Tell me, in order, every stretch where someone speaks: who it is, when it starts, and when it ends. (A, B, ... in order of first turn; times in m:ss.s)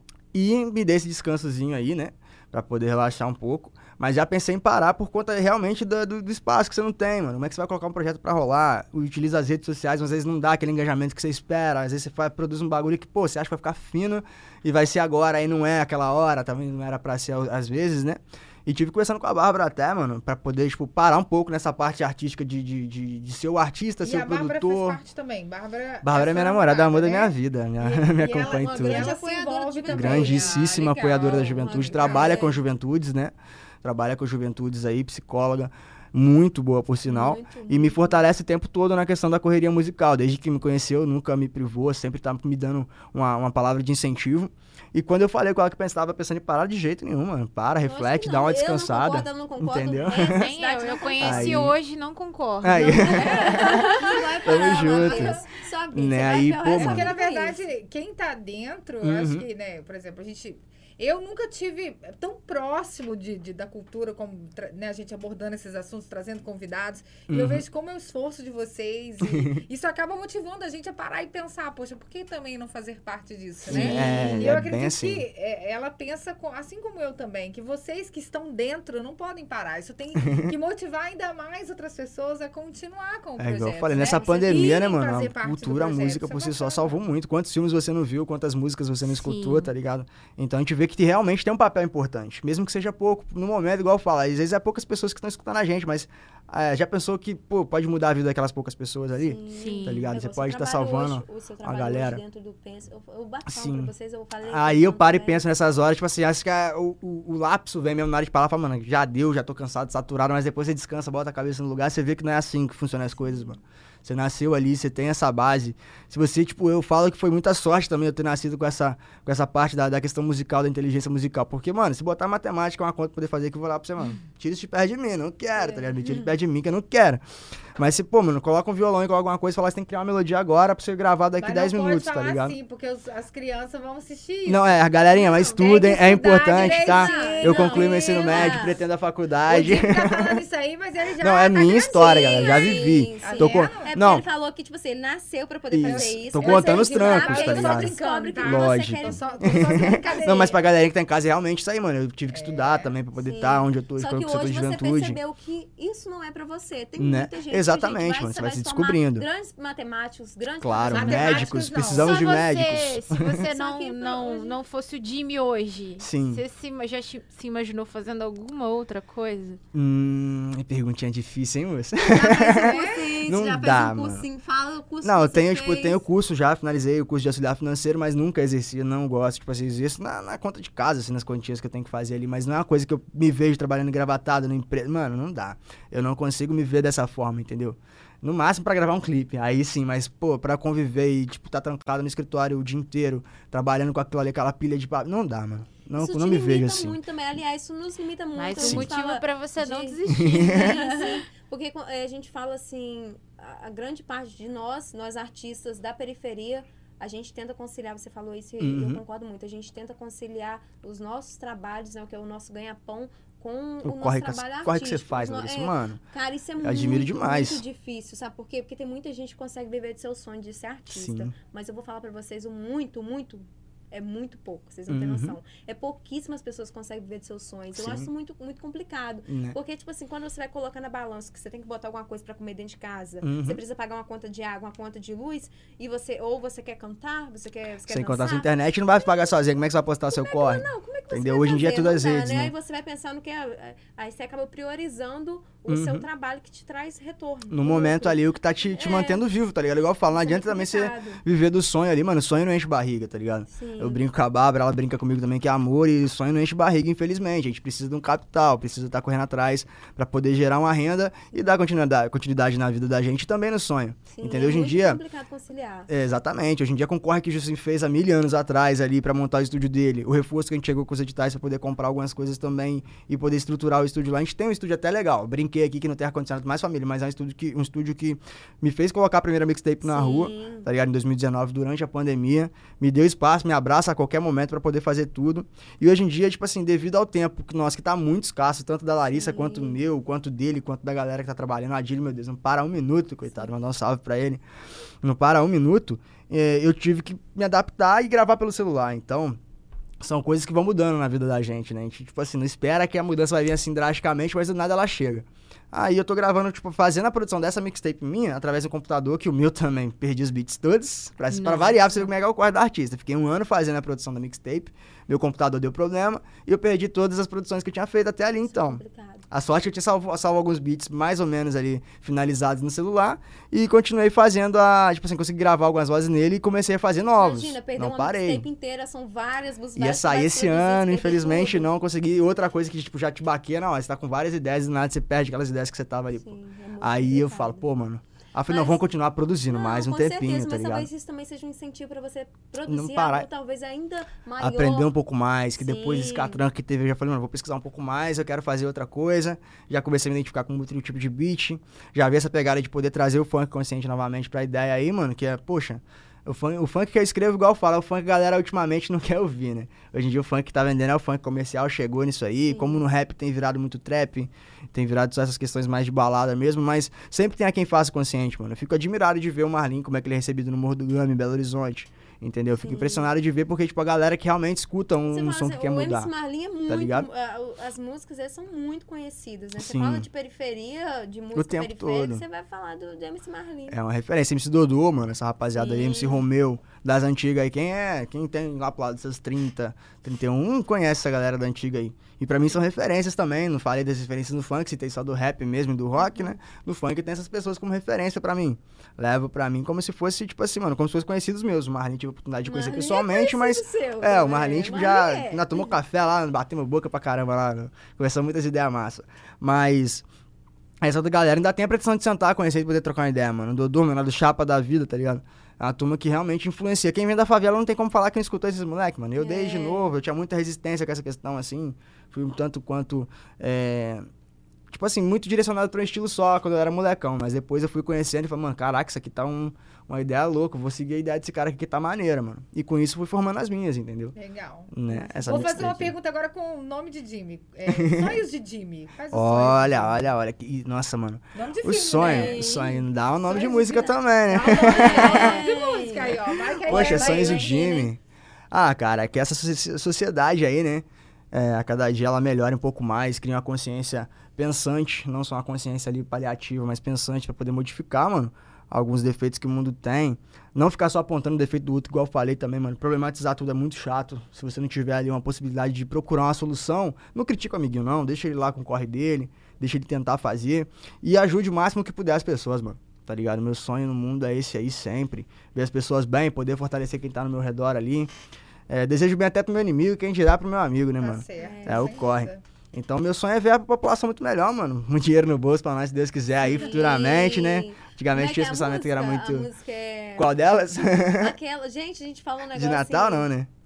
0:00.3-0:25.0 A
0:24.0-0:32.5 B
0:26.0-0:29.1 A
0:28.4-0:32.6 C
0:29.9-0:50.5 A
0:37.0-0:38.2 C
0:47.8-0:51.7 C
0:50.2-0:54.2 D
0:51.2-0:51.7 A
0:52.6-0:55.4 A
0:52.8-0:57.6 C
0:54.3-0:55.5 B
0:55.9-0:57.1 A
0:56.8-1:27.0 B
0:59.0-0:59.4 A
1:07.3-1:07.6 A
1:09.2-1:09.6 A
1:13.7-1:15.2 A
1:13.7-1:14.6 C
1:20.2-1:20.5 A
1:23.4-1:42.2 A
1:23.9-1:24.8 C
1:29.0-1:29.7 D
1:39.2-1:45.4 C
1:39.5-1:40.1 D
1:43.5-1:43.9 A
1:44.4-2:07.2 A
2:05.7-2:06.3 C
2:07.8-2:12.6 A
2:11.4-2:14.8 B
2:14.4-2:20.4 A
2:15.1-2:18.8 C
2:15.4-2:18.8 B
2:19.5-2:23.9 B
2:21.2-2:24.2 A
2:21.7-2:30.4 C
2:25.7-2:35.2 A
2:25.8-2:30.6 B
2:32.3-2:32.9 B
2:33.2-2:41.6 C
2:37.0-2:39.2 A
2:40.6-2:43.4 A
2:40.9-2:42.4 B
2:41.9-2:49.6 D
2:43.4-2:44.6 C
2:46.0-2:46.4 A
2:49.7-2:54.2 A
2:52.1-2:56.0 C
2:52.2-2:53.1 B
2:55.0-3:17.0 A
3:16.0-3:58.5 C
3:18.4-3:21.2 D
3:18.6-3:18.9 A
3:20.1-3:20.8 A
3:28.6-3:29.0 A
3:33.8-3:36.0 A
3:36.6-3:37.6 A
3:40.9-3:41.3 A
3:44.9-3:45.4 A
3:47.7-3:48.1 A
3:49.3-3:49.6 A
3:53.2-3:53.6 A
3:57.9-4:02.5 A
4:00.1-4:09.2 C
4:05.7-4:06.0 A
4:07.5-4:25.0 A
4:10.1-4:11.2 C
4:13.5-4:14.0 C
4:24.1-4:25.9 C
4:25.9-4:54.4 A
4:39.8-4:40.6 C
4:49.1-4:49.8 C
4:55.0-4:59.4 A
5:00.0-5:28.4 A
5:11.3-5:12.1 D
5:18.4-5:19.3 C
5:27.2-5:31.7 C
5:29.8-5:40.9 A
5:36.2-5:37.7 C
5:38.5-5:38.8 C
5:39.5-5:44.9 C
5:42.6-5:43.3 A
5:44.4-6:16.1 A
5:45.6-5:46.4 C
6:02.5-6:02.8 C
6:12.6-6:13.1 C
6:15.1-6:23.8 C
6:16.7-6:17.1 A
6:19.6-6:20.0 A
6:21.3-6:22.2 A
6:23.7-6:50.0 A
6:25.5-6:26.3 C
6:36.0-6:36.4 C
6:42.4-6:45.8 C
6:50.8-7:04.0 A
6:59.2-6:59.9 C
7:04.7-7:14.2 A
7:14.2-7:20.0 B
7:14.7-7:15.9 A
7:14.9-7:15.6 C
7:17.7-7:18.2 A
7:19.1-7:25.4 A
7:21.3-7:22.7 B
7:22.1-7:22.4 D
7:23.2-7:27.9 B
7:24.4-7:27.6 C
7:26.6-7:28.0 A
7:28.5-7:58.1 A
7:58.7-8:09.5 A
8:01.0-8:02.4 B
8:01.4-8:02.0 C
8:06.4-8:13.3 C
8:10.2-8:11.3 A
8:12.5-8:13.5 A